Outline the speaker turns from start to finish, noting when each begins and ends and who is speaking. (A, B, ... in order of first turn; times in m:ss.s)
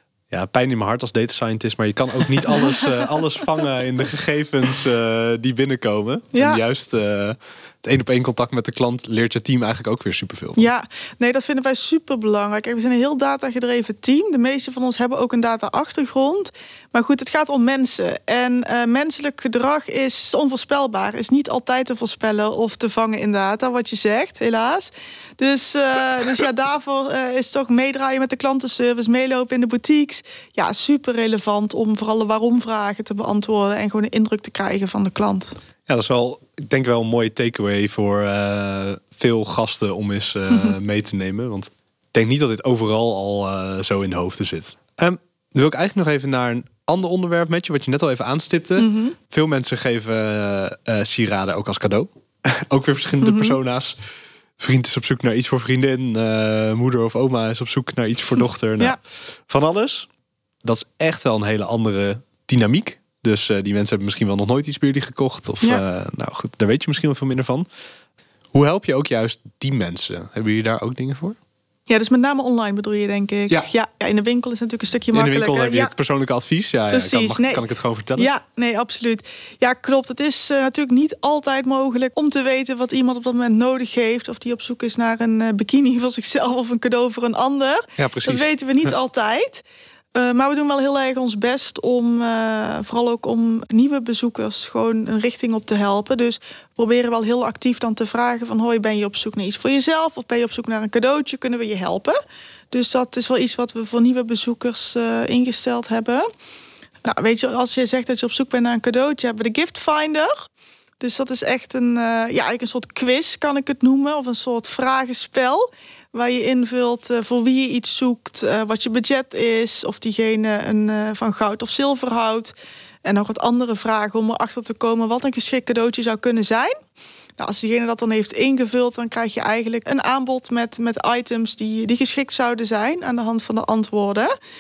0:00.3-0:10.7 A
0:02.6-0:03.0 B
0:06.3-0:06.6 B
0:10.6-0:35.6 B
0:35.9-0:54.0 A
0:48.8-0:49.2 B
0:53.2-0:53.6 B
0:54.6-1:00.1 A
1:00.6-1:07.7 A
1:08.5-1:11.4 A
1:11.9-1:15.9 B
1:15.1-1:18.3 A
1:16.9-1:17.6 B
1:18.2-1:29.6 B
1:28.0-1:28.9 A
1:30.2-1:42.2 B
1:42.7-1:46.3 B
1:47.0-1:50.5 B
1:51.0-2:06.8 B
2:07.4-2:14.3 B